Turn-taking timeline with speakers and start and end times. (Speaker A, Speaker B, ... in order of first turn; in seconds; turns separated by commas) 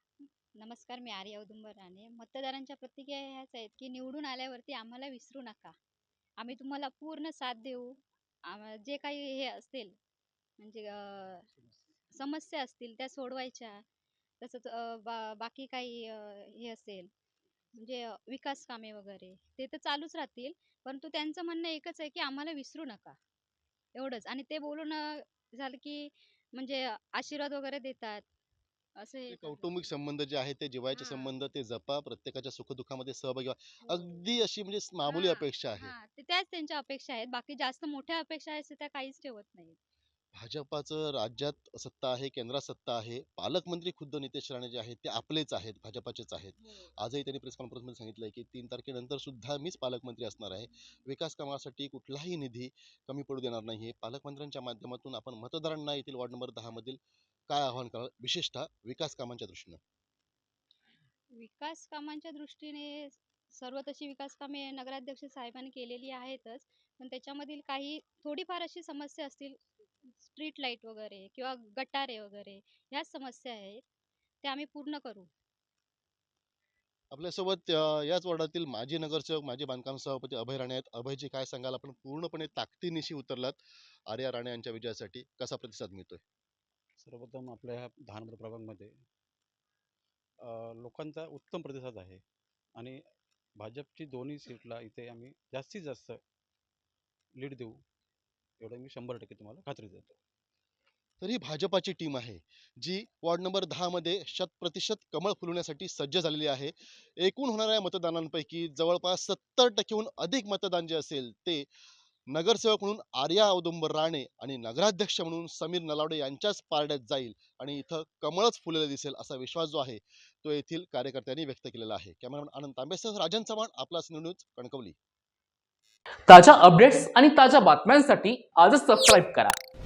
Speaker A: 0.6-5.8, Speaker A: 6.4-10.0, Speaker A: 10.6-11.5, Speaker A: 12.2-13.8, Speaker A: 14.4-17.1, Speaker A: 17.8-23.2, Speaker A: 23.9-28.3, Speaker A: 29.0-29.9, Speaker B: 29.3-35.9, Speaker A: 30.9-31.3, Speaker A: 35.0-39.8, Speaker B: 40.4-59.8, Speaker A: 61.4-69.6, Speaker A: 70.2-73.8, Speaker A: 74.4-75.3, Speaker B: 77.1-86.2, Speaker C: 87.0-88.9, Speaker C: 90.4-92.2, Speaker C: 93.6-96.2, Speaker C: 97.4-97.7, Speaker C: 98.6-100.2, Speaker B: 101.2-111.7, Speaker B: 112.3-125.0, Speaker D: 126.3-129.6